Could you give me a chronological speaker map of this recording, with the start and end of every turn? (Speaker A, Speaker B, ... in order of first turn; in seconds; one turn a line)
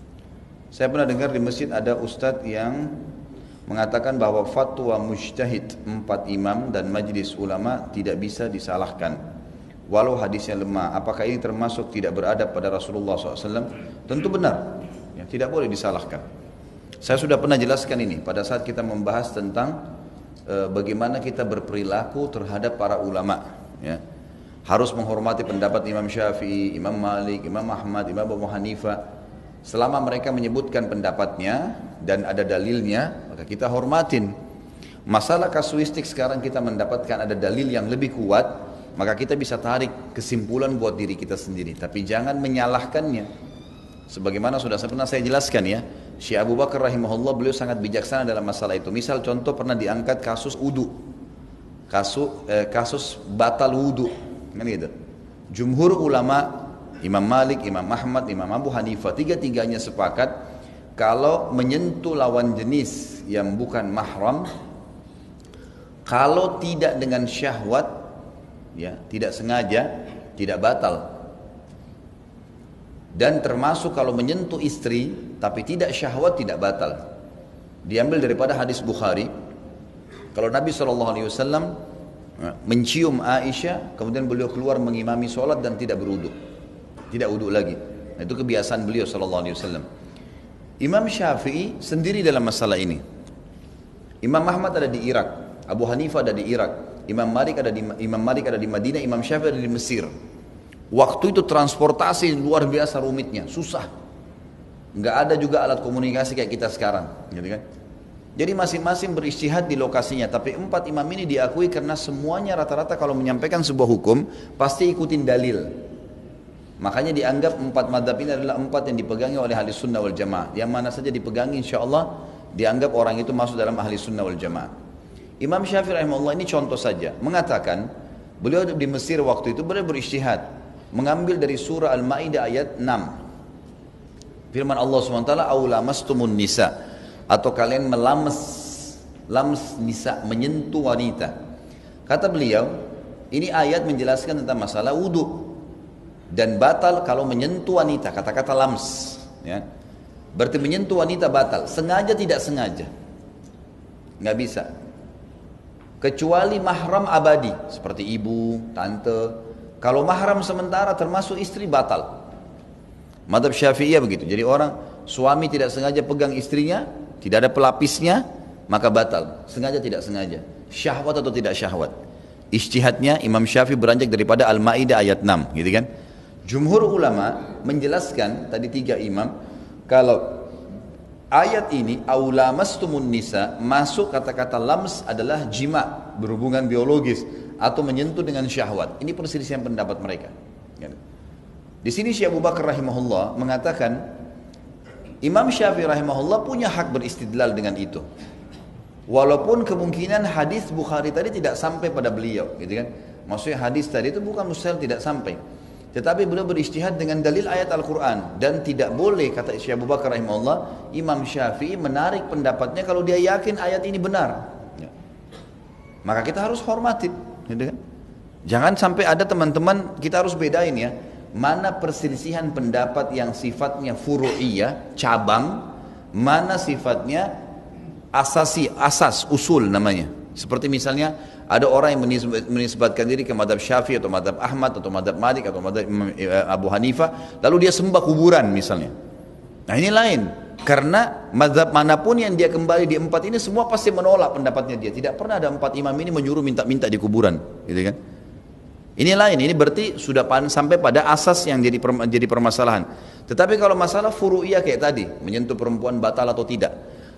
Speaker A: 0.7-3.0
Speaker A: 3.7-9.2
Speaker A: 9.9-16.2
Speaker A: 17.0-19.8
Speaker A: 20.5-24.0
Speaker A: 24.6-29.0
Speaker A: 29.6-34.3
Speaker A: 35.1-43.3
Speaker A: 44.1-51.0
Speaker A: 51.9-54.9
Speaker A: 55.5-60.3
Speaker A: 61.0-64.5
Speaker A: 66.1-68.0
Speaker A: 68.7-71.1
Speaker A: 73.1-77.0
Speaker A: 77.8-79.3
Speaker A: 80.3-81.7
Speaker A: 82.4-86.3
Speaker A: 87.1-89.8
Speaker A: 90.8-93.0
Speaker A: 94.2-100.1
Speaker A: 100.9-103.9
Speaker A: 104.9-107.6
Speaker A: 108.3-115.7
Speaker A: 116.8-124.7
Speaker A: 125.4-127.9
Speaker A: 128.4-133.2
Speaker A: 134.5-136.7
Speaker A: 137.3-141.3
Speaker A: 142.1-142.8
Speaker A: 143.3-145.6
Speaker A: 146.3-149.6
Speaker A: 150.3-152.9
Speaker A: 154.2-154.7
Speaker A: 156.0-162.1
Speaker A: 163.3-171.9
Speaker A: 172.5-175.9
Speaker A: 176.4-179.3
Speaker A: 179.9-180.5
Speaker A: 181.3-191.0
Speaker A: 191.8-194.0
Speaker A: 195.2-198.0
Speaker A: 199.1-205.4
Speaker A: 205.9-214.9
Speaker A: 216.0-217.8
Speaker A: 218.5-227.3
Speaker A: 228.1-238.9
Speaker A: 239.7-247.9
Speaker A: 249.0-256.7